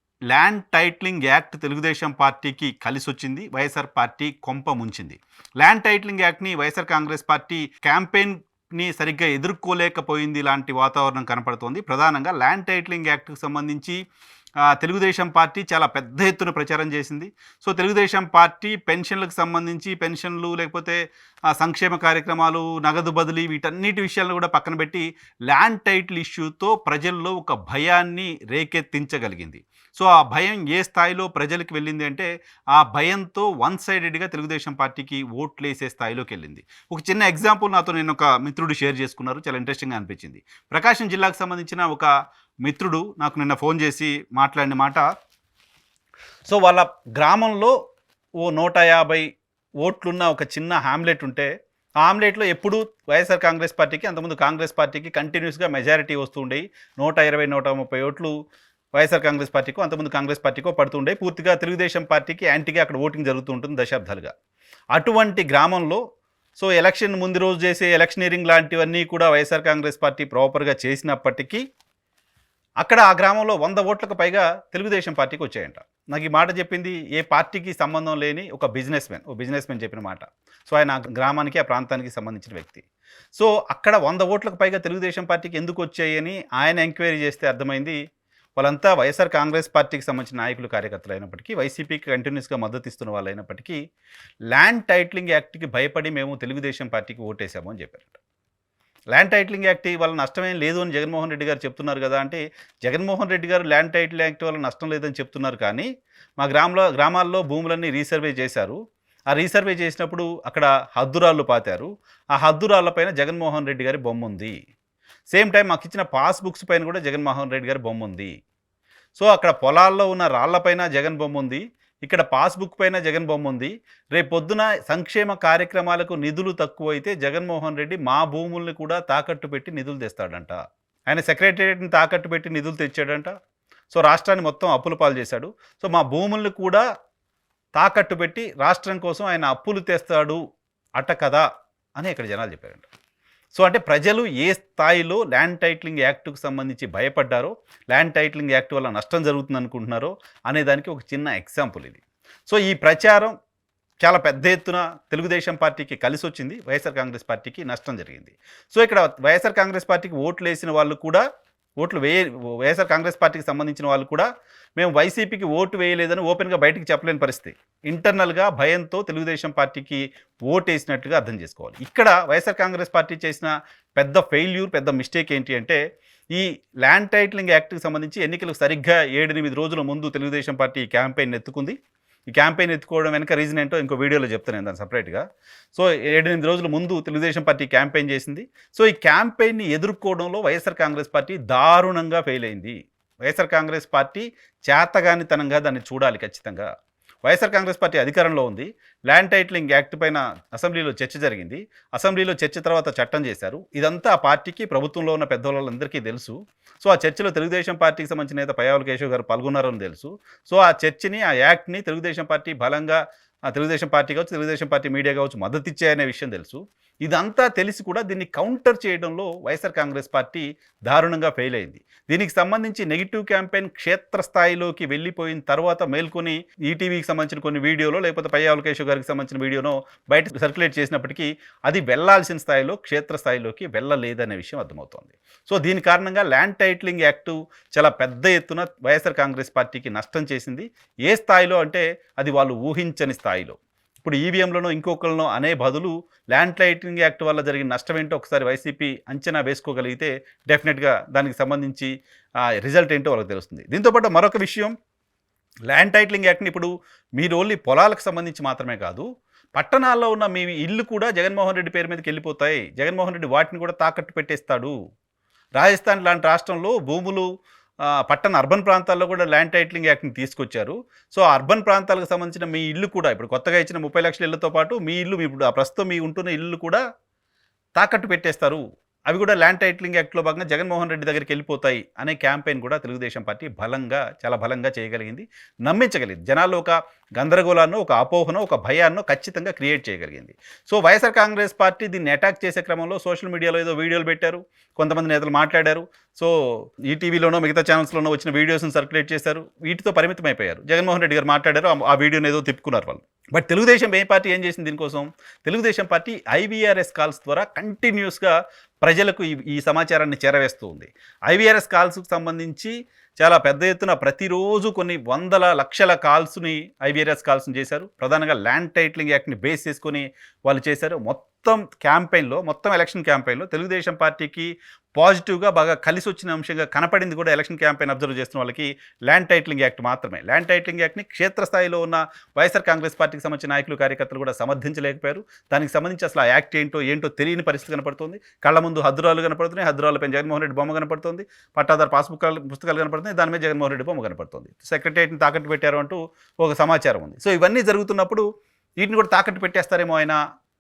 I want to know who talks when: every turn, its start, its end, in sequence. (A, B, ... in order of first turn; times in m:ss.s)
0:00.3-0:14.0 A
0:14.6-0:42.1 A
0:42.6-0:45.1 A
0:46.5-0:47.8 A
0:48.4-0:49.3 A
0:49.8-0:51.5 A
0:52.0-0:58.3 A
0:59.0-1:04.3 A
1:04.9-1:06.0 A
1:06.6-1:11.6 A
1:12.8-1:28.0 A
1:28.6-1:33.8 A
1:34.5-1:38.2 A
1:39.1-1:45.9 A
1:46.4-1:48.8 A
1:49.3-1:54.6 A
1:55.3-1:58.3 A
1:59.2-2:13.3 A
2:13.9-2:16.8 A
2:17.8-2:20.4 A
2:21.0-2:21.5 A
2:22.0-2:22.9 A
2:23.5-2:33.3 A
2:34.0-2:41.2 A
2:41.8-2:55.8 A
2:56.3-3:01.8 A
3:02.3-3:16.7 A
3:17.2-4:11.9 A
4:12.6-4:14.7 A
4:15.7-4:24.7 A
4:25.6-4:27.3 A
4:27.9-4:36.8 A
4:37.8-5:48.2 A
5:48.8-5:50.2 A